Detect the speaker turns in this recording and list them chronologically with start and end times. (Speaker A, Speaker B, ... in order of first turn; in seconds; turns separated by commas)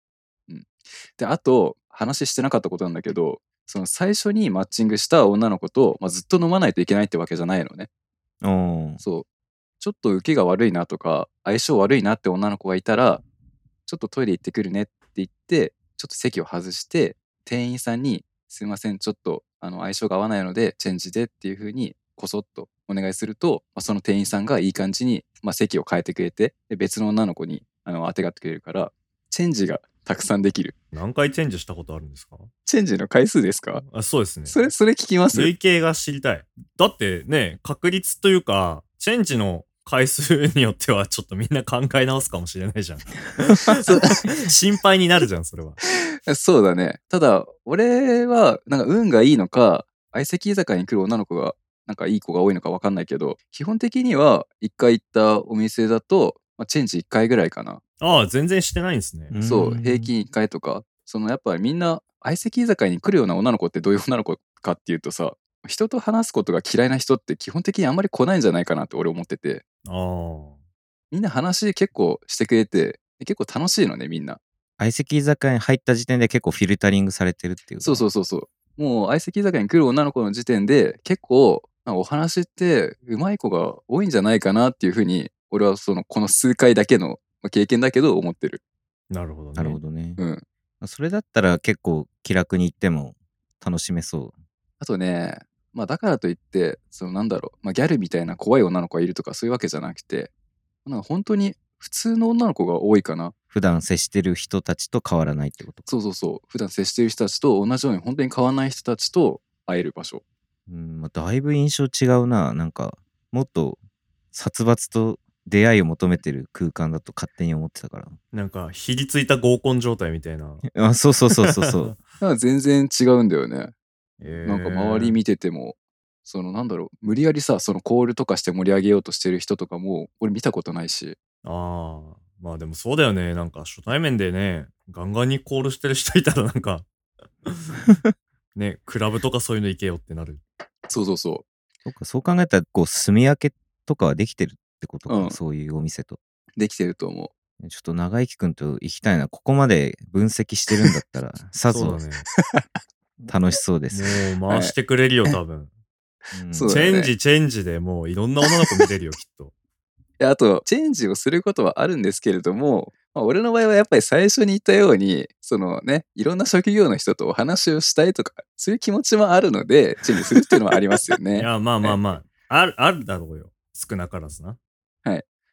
Speaker A: 0.5-7.9, Speaker B: 8.4-9.0, Speaker A: 9.0-9.2, Speaker A: 9.8-13.2, Speaker A: 13.8-30.8, Speaker C: 30.9-32.5, Speaker A: 32.6-33.8, Speaker C: 33.9-34.6, Speaker A: 34.5-35.5, Speaker C: 35.3-45.8, Speaker A: 43.9-44.1, Speaker A: 46.2-57.8, Speaker C: 58.0-59.3, Speaker B: 59.3-60.1, Speaker A: 59.4-69.6, Speaker C: 69.9-70.6, Speaker A: 71.1-74.4, Speaker B: 74.8-78.0, Speaker A: 77.8-88.6, Speaker C: 89.1-89.8, Speaker B: 89.6-90.2, Speaker A: 90.2-90.4, Speaker B: 90.8-94.3, Speaker A: 94.8-100.3, Speaker A: 100.8-103.3, Speaker B: 103.5-105.9, Speaker A: 105.8-110.2, Speaker B: 110.7-113.8, Speaker B: 114.3-118.2, Speaker C: 118.3-120.6, Speaker B: 120.7-121.9, Speaker C: 121.4-122.0, Speaker A: 122.2-123.7, Speaker C: 124.2-125.2, Speaker A: 124.4-131.2, Speaker C: 131.4-136.8, Speaker C: 137.4-137.9, Speaker C: 138.6-140.4, Speaker A: 140.9-141.4, Speaker B: 141.8-146.2, Speaker A: 145.1-145.4, Speaker A: 146.6-147.3, Speaker B: 147.6-152.0, Speaker C: 151.7-152.2, Speaker B: 153.2-154.1, Speaker C: 153.9-155.7, Speaker A: 154.5-154.7, Speaker B: 156.3-156.8, Speaker A: 156.5-157.1, Speaker C: 156.6-159.5, Speaker A: 160.2-172.0, Speaker C: 171.3-174.6